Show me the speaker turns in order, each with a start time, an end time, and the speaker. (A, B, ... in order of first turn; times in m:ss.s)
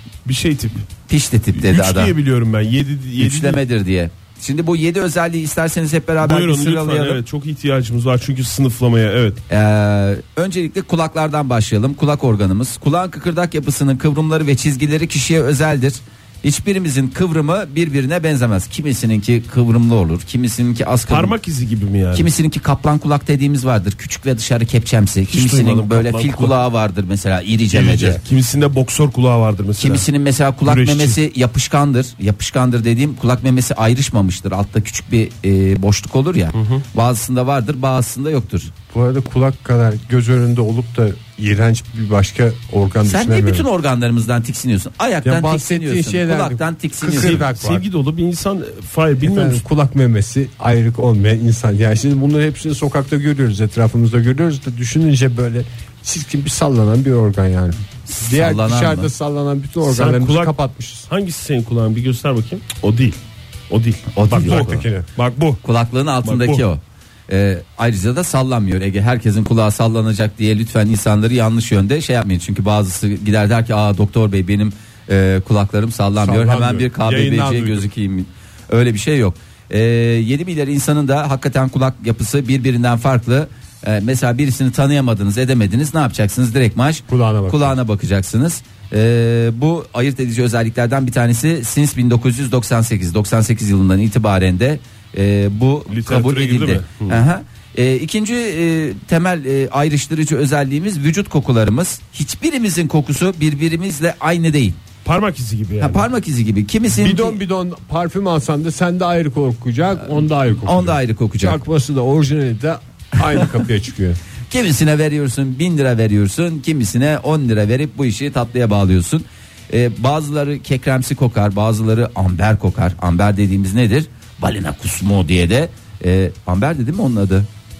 0:00.2-0:00.9 A
0:01.1-0:02.1 B
0:01.6-0:03.6 A
0:03.2-0:07.2 B
0:06.2-0:09.4 A
0:09.5-0:21.3 B
0:21.1-0:22.3 A
0:22.1-0:28.2 B
0:25.3-0:26.6 A
0:27.7-0:30.1 A
0:29.8-0:38.7 B
0:30.6-0:31.2 A
0:36.6-0:36.8 A
0:38.9-0:43.7 C
0:43.0-0:47.5 B
0:45.2-0:47.8 C
0:47.1-0:49.6 A
0:49.2-1:01.1 C
0:58.1-0:59.1 B
0:59.8-1:00.6 A
1:01.1-1:03.2 A
1:03.7-1:05.6 A
1:04.1-1:04.8 B
1:04.3-1:05.1 C
1:05.6-1:44.8 B
1:06.2-1:06.6 A
1:16.2-1:17.9 C
1:27.1-1:27.8 C
1:35.9-1:37.2 A
1:45.0-1:46.1 A
1:45.8-1:47.4 B
1:47.0-1:54.2 C
1:50.4-1:51.6 B
1:54.5-2:07.5 B